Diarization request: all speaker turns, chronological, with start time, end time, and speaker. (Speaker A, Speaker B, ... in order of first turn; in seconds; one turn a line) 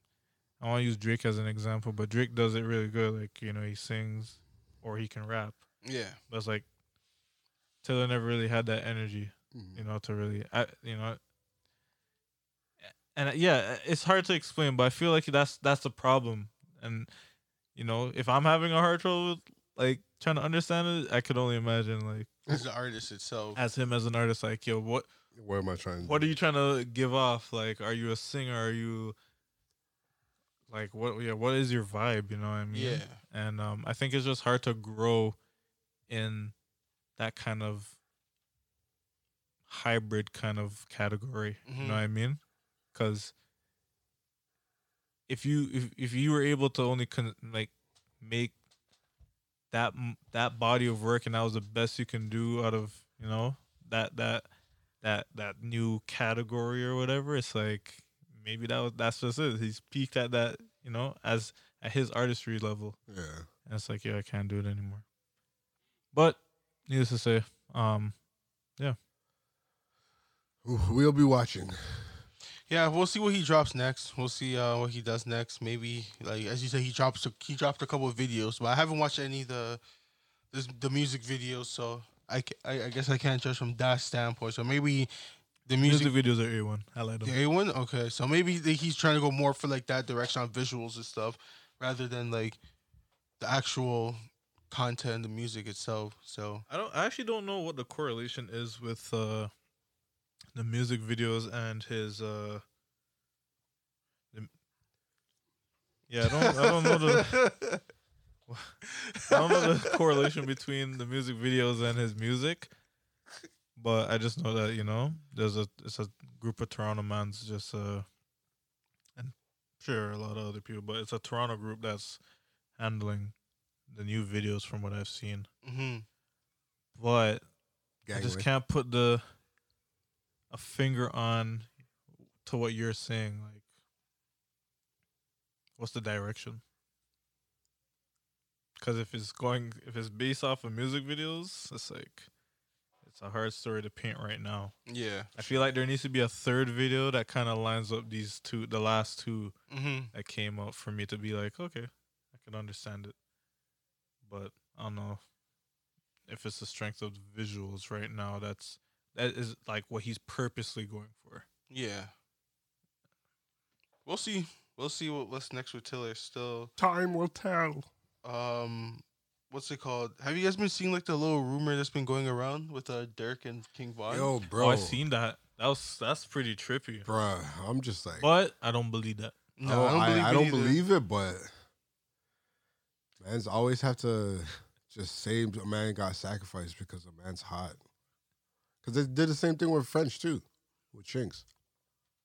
Speaker A: 0.6-5.6
Speaker B: 5.8-6.2
Speaker A: 6.3-6.6
Speaker A: 7.8-11.2
Speaker C: 9.5-9.8
Speaker A: 13.1-17.1
Speaker A: 17.7-22.3
Speaker B: 22.5-23.6
Speaker A: 23.6-25.1
Speaker C: 25.3-26.3
Speaker A: 26.0-29.1
Speaker A: 30.7-35.4
Speaker B: 32.7-33.2
Speaker A: 36.1-36.5
Speaker A: 37.2-38.0
Speaker A: 39.7-42.4
Speaker B: 41.6-42.0
Speaker A: 42.9-43.3
Speaker A: 45.3-48.5
Speaker A: 49.7-54.5
Speaker A: 55.0-63.0
Speaker C: 63.1-63.5
Speaker A: 63.6-65.0
Speaker A: 66.1-68.1
Speaker C: 70.6-72.2
Speaker B: 72.7-79.8
Speaker B: 80.5-85.1
Speaker B: 85.7-86.1
Speaker A: 85.8-87.3
Speaker B: 87.2-92.6
Speaker B: 93.4-96.6
Speaker A: 96.7-99.5
Speaker A: 100.5-102.6
Speaker A: 106.1-107.4
Speaker B: 106.3-107.8
Speaker A: 108.5-108.8
Speaker B: 108.9-109.9
Speaker A: 109.3-112.7
Speaker A: 113.8-118.0
Speaker A: 119.2-122.2
Speaker A: 122.8-123.3
Speaker A: 123.9-125.5
Speaker B: 125.6-126.0
Speaker A: 127.0-127.4
Speaker C: 128.1-128.5
Speaker A: 128.1-129.2
Speaker A: 130.5-131.7
Speaker A: 132.4-133.6
Speaker A: 135.8-136.6
Speaker A: 138.8-142.3
Speaker A: 143.0-144.7
Speaker B: 144.9-145.5
Speaker A: 145.3-149.5
Speaker B: 149.7-150.1
Speaker A: 150.1-153.1
Speaker A: 154.2-155.2
Speaker A: 156.3-161.4
Speaker B: 161.7-162.1
Speaker B: 164.1-166.7
Speaker C: 166.8-167.9
Speaker B: 168.2-174.3
Speaker C: 174.1-175.0
Speaker A: 174.5-177.1
Speaker C: 177.0-178.3
Speaker A: 178.2-179.5
Speaker B: 179.6-180.8
Speaker C: 179.6-181.5
Speaker C: 183.2-187.8
Speaker C: 188.8-191.4